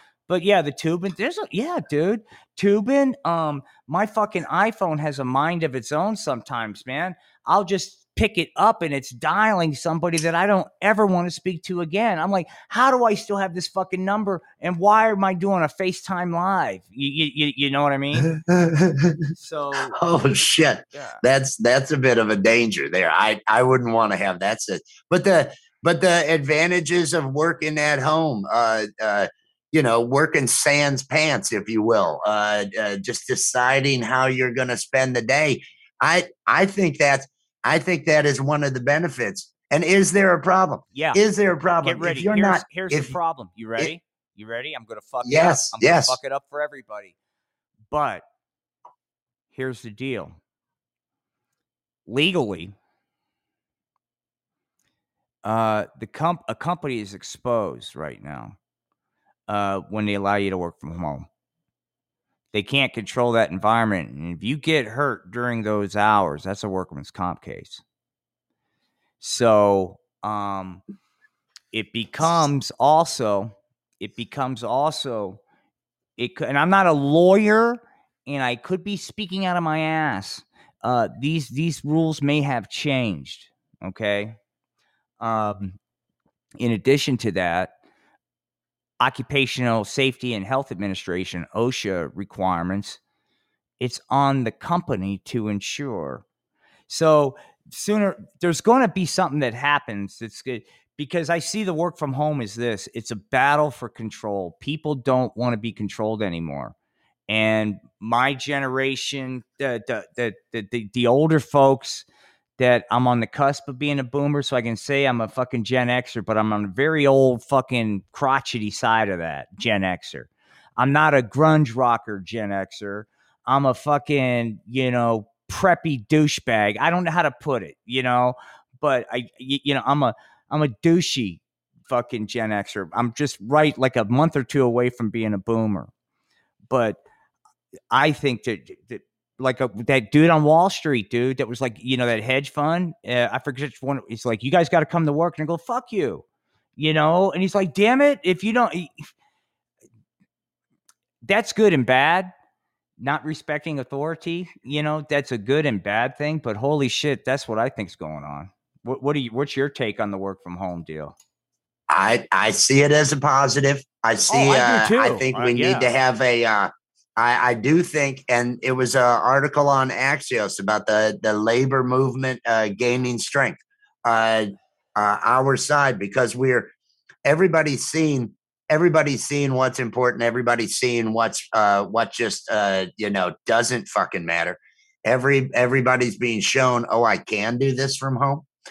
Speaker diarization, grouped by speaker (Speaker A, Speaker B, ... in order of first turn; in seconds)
Speaker A: 0.3-18.3, 19.3-20.0, 20.9-21.2, 40.9-41.2, 41.8-47.1, 47.9-48.2, 49.5-50.4, 52.1-52.7, 55.4-58.5, 59.5-61.3, 62.5-67.8, 69.2-70.8, 71.7-75.4, 76.2-84.4, 85.2-85.8, 86.6-87.7, 89.0-93.0, 93.8-96.2, 96.9-106.7, 107.3-112.0, 112.6-135.9, 136.7-137.0, 137.9-146.2, 146.8-149.0, 151.2-152.3, 153.0-161.1, 164.3-165.9
Speaker B: 18.1-19.3, 19.8-43.2, 45.2-46.2, 161.9-176.7, 177.2-188.4